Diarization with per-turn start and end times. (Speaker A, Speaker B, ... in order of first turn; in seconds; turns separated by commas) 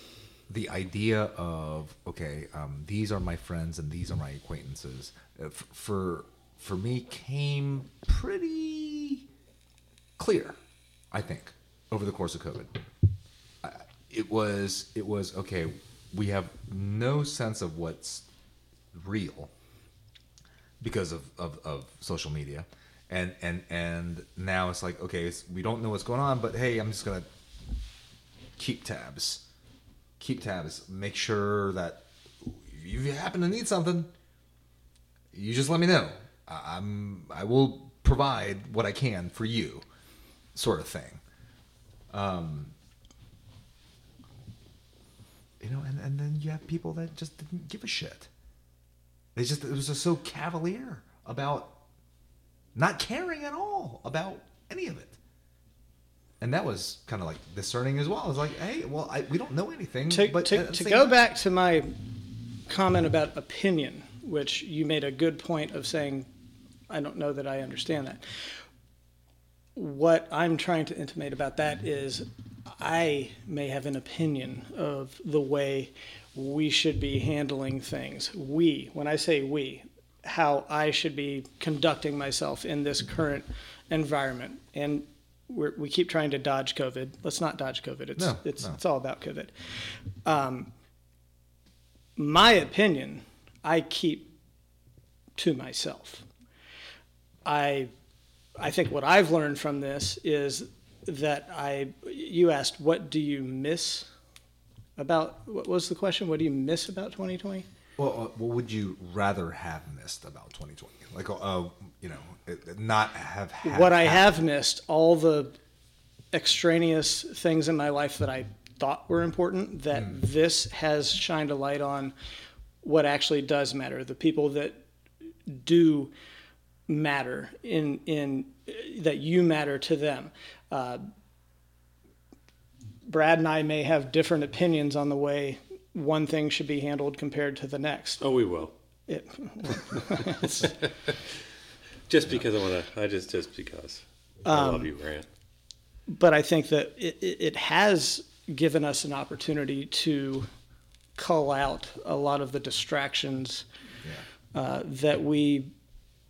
Speaker A: 0.5-9.2, Speaker A: 10.2-10.6, Speaker A: 11.1-12.7, Speaker A: 13.6-18.3, Speaker A: 18.9-19.5, Speaker A: 20.8-27.3, Speaker A: 28.6-29.4, Speaker A: 30.2-34.1, Speaker A: 35.3-39.9, Speaker A: 40.5-41.2, Speaker A: 42.1-42.7, Speaker A: 45.6-48.3, Speaker A: 49.4-51.8, Speaker A: 52.8-55.2, Speaker A: 56.4-61.1, Speaker B: 60.1-61.9, Speaker B: 62.7-66.3, Speaker B: 66.9-68.2, Speaker B: 69.8-89.5, Speaker A: 88.2-88.8, Speaker B: 90.2-90.7, Speaker B: 92.2-94.3, Speaker B: 95.4-96.3, Speaker B: 97.5-97.9, Speaker B: 98.6-104.1, Speaker B: 105.0-107.7, Speaker A: 108.0-114.3, Speaker B: 113.6-115.5, Speaker B: 116.3-122.1, Speaker B: 122.8-124.8, Speaker B: 125.5-126.1, Speaker B: 126.9-131.1, Speaker B: 133.1-138.2, Speaker C: 138.2-138.7, Speaker B: 139.1-140.8, Speaker C: 142.1-145.3, Speaker B: 144.4-144.9, Speaker B: 146.1-150.5, Speaker B: 151.2-153.7, Speaker B: 154.5-155.7